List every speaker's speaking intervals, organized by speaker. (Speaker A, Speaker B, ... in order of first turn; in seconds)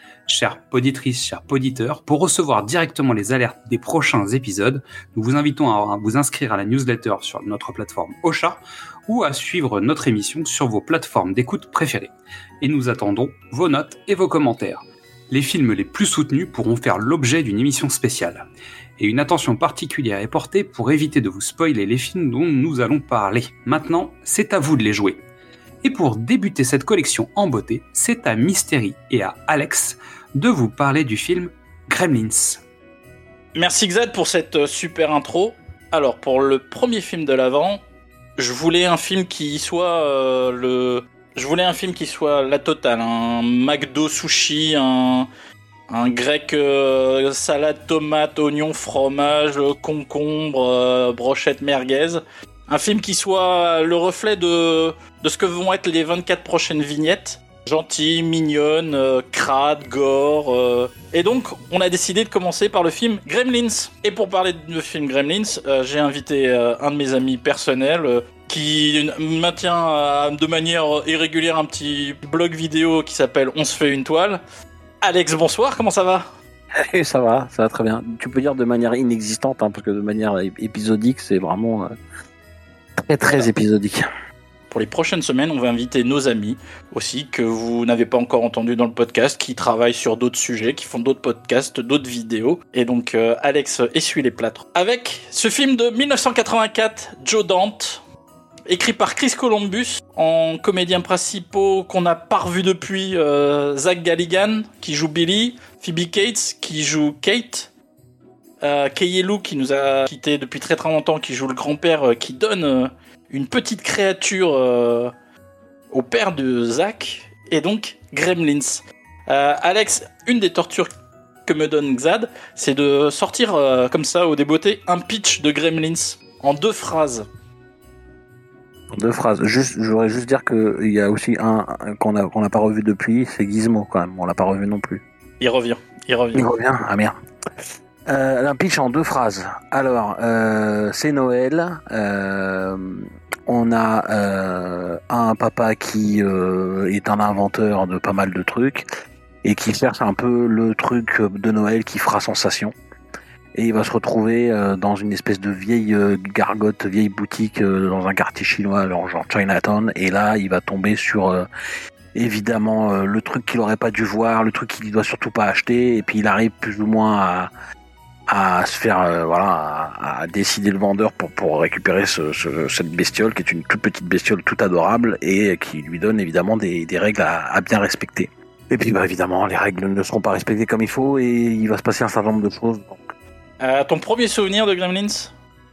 Speaker A: 0.3-18.5, 19.0-25.2, 25.8-32.6
Speaker B: 33.5-37.8, 38.4-45.3, 45.9-74.4, 75.0-76.2, 84.7-98.0, 98.7-107.7, 108.6-115.1, 115.9-120.9, 121.5-127.3, 135.4-136.5, 183.6-185.3
Speaker C: 76.9-81.9, 83.0-84.0, 128.9-135.0, 136.3-137.1, 138.1-148.8, 149.4-152.7, 153.6-161.5, 162.1-167.5, 168.3-183.0